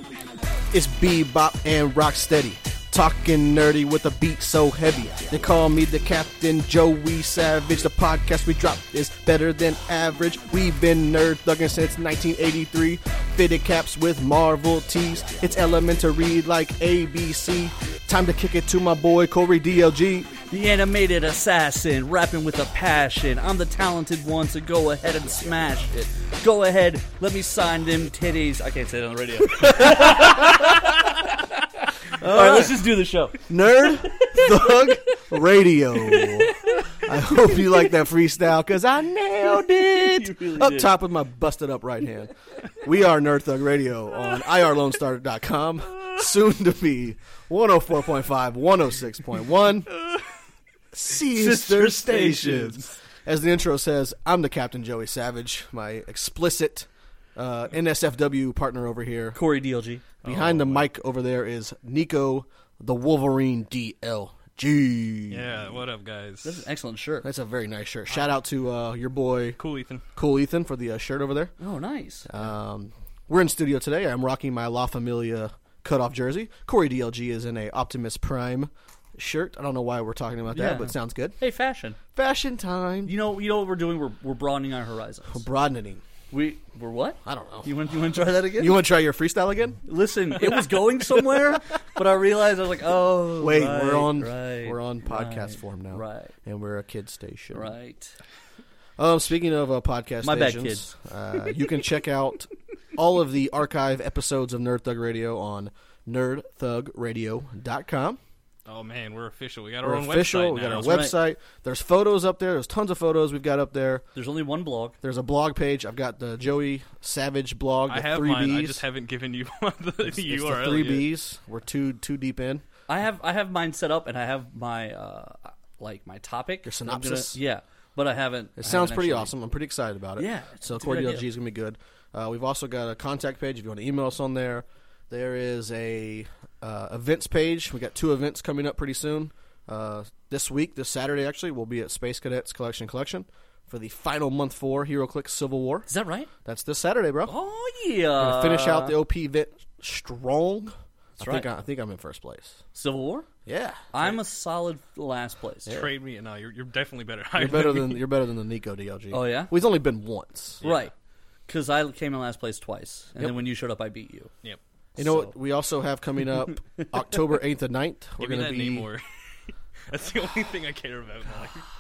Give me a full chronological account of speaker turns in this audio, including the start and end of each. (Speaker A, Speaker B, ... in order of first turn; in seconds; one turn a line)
Speaker A: 0.7-20.3
Speaker B: 20.5-35.2
Speaker A: 29.6-30.9
Speaker A: 32.2-32.9
Speaker A: 33.5-49.9
Speaker B: 36.0-37.0
Speaker B: 39.6-40.9
Speaker A: 50.9-59.4
Speaker B: 51.1-52.9
Speaker B: 59.3-60.0
Speaker C: 60.2-60.9
Speaker A: 60.2-65.6
Speaker C: 65.3-66.7
Speaker B: 66.4-67.3
Speaker A: 67.2-69.6
Speaker C: 69.6-70.0
Speaker A: 70.1-71.5
Speaker B: 71.6-72.3
Speaker A: 72.3-81.4
Speaker B: 80.5-82.0
Speaker A: 82.1-83.1
Speaker B: 83.1-85.4
Speaker A: 85.3-86.0
Speaker B: 86.3-88.8
Speaker A: 87.2-87.8
Speaker A: 88.5-89.8
Speaker B: 89.9-96.3
Speaker A: 93.4-97.7
Speaker B: 97.5-98.2
Speaker A: 99.0-108.2
Speaker B: 100.2-100.9
Speaker C: 108.7-111.1
Speaker A: 109.8-114.1
Speaker B: 110.7-111.2
Speaker B: 114.2-115.0
Speaker A: 115.0-118.8
Speaker C: 117.9-121.1
Speaker A: 120.0-122.6
Speaker B: 122.9-129.3
Speaker A: 126.7-127.4
Speaker A: 128.6-145.9
Speaker B: 130.2-131.3
Speaker B: 145.9-146.3
Speaker A: 146.4-147.3
Speaker B: 147.3-149.0
Speaker A: 148.2-152.6
Speaker B: 151.2-151.5
Speaker B: 152.8-153.3
Speaker A: 153.5-154.2
Speaker B: 153.9-155.7
Speaker A: 155.7-155.9
Speaker C: 155.7-158.0
Speaker A: 157.3-160.6
Speaker B: 159.1-159.5
Speaker C: 160.6-160.9
Speaker B: 160.6-160.9
Speaker B: 161.5-164.3
Speaker A: 165.0-168.9
Speaker B: 165.0-165.3
Speaker C: 168.2-171.7